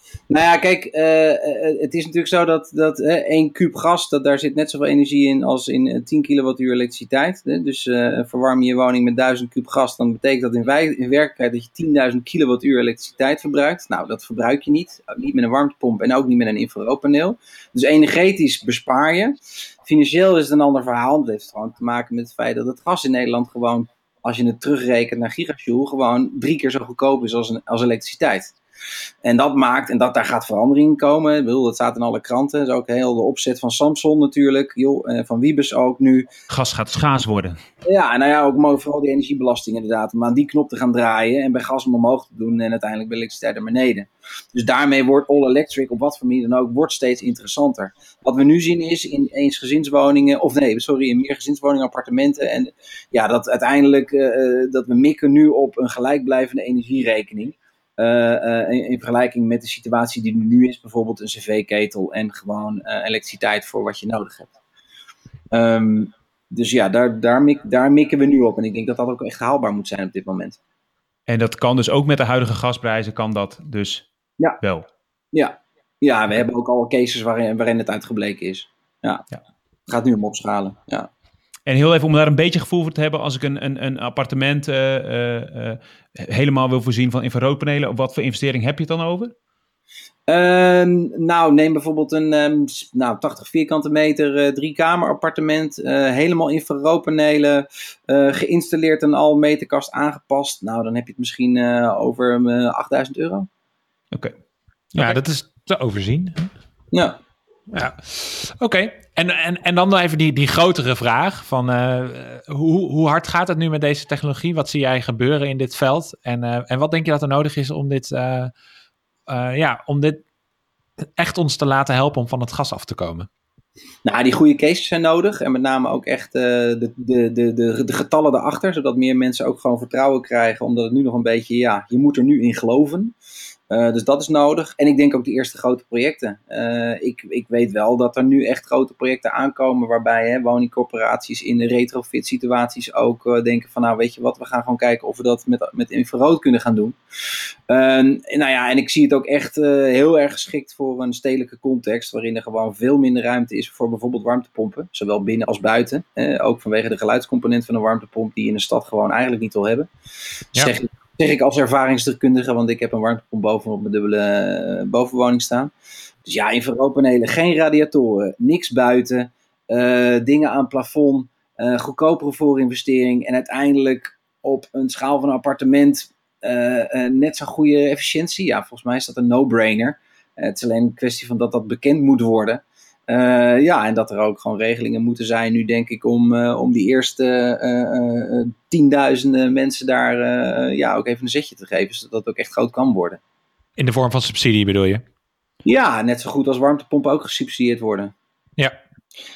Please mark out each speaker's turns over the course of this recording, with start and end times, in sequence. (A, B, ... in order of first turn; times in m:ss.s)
0:00.3-0:28.5 A
0:29.2-0:36.3 A
0:36.5-0:37.6 B
0:37.8-1:04.5 A
1:05.5-1:10.6 A
1:11.3-1:14.0 B
1:15.3-1:19.2 A
1:19.9-1:21.1 A
1:21.6-1:29.3 B
1:30.3-1:43.5 A
1:45.0-1:46.5 C
1:47.7-1:58.5 C
1:59.3-2:00.2 C
2:01.2-2:03.3 C
2:04.0-2:13.1 A
2:13.7-2:39.9 A
2:40.6-2:45.7 A
2:46.2-3:13.2 A
3:13.8-3:15.0 C
3:15.6-3:18.1 A